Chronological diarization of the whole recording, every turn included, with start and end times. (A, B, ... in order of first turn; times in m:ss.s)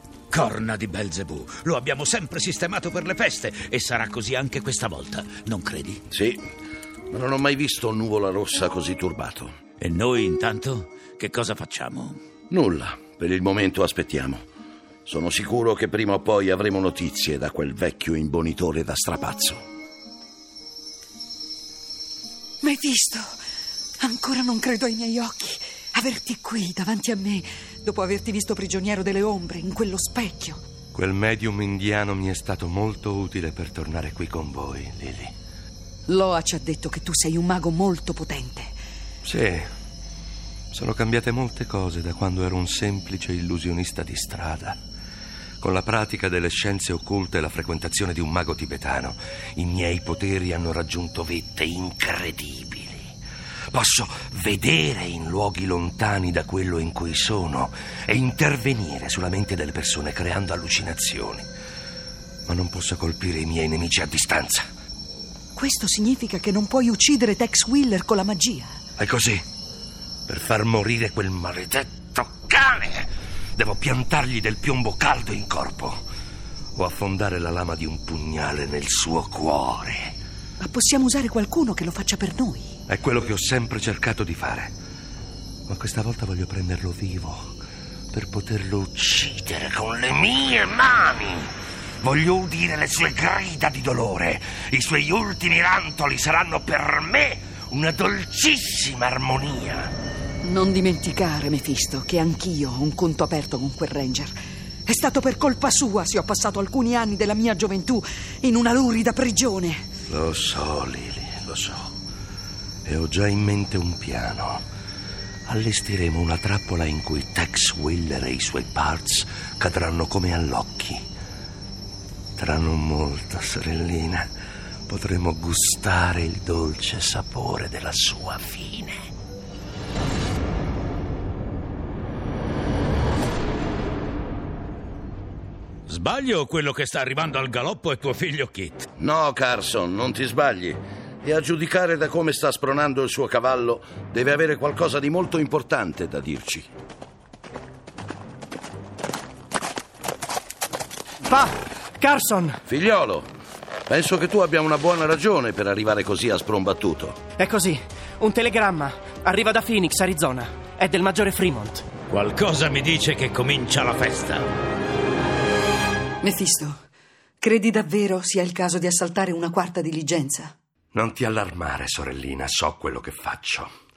0:00.3-0:06.0 A
0:06.1-0:06.4 B
0:07.1-0:09.6 B
0:09.8-0:12.2 A
0:12.5-0:14.4 B
0:15.1-0:19.6 B
0:22.6-0:23.3 C
0:24.0-0:30.6 C
0:30.9-0:35.3 D
0:36.1-0:38.7 C
0:39.2-0:39.7 D
0:40.7-0:44.8 D
0:45.6-0:53.1 D
0:53.7-1:01.5 D
1:02.5-1:04.7 D
1:05.6-1:08.8 C
1:09.0-1:09.4 D
1:10.3-1:16.0 D
1:16.8-1:20.2 D
1:20.6-1:22.8 C
1:22.9-1:24.7 D
1:25.7-1:27.6 D
1:28.1-1:39.9 D
1:40.4-1:44.3 C
1:44.9-1:49.9 C
1:50.1-1:51.9 D
1:52.9-1:54.6 D
1:55.5-2:01.0 D
2:02.4-2:04.3 D
2:04.9-2:09.1 D
2:15.9-2:18.9 A
2:19.0-2:26.7 B
2:31.3-2:32.6 E
2:32.7-2:33.3 B
2:33.9-2:37.2 B
2:37.4-2:41.9 E
2:42.1-2:44.4 A
2:46.2-2:46.8 C
2:47.4-2:50.6 C
2:50.9-2:53.7 D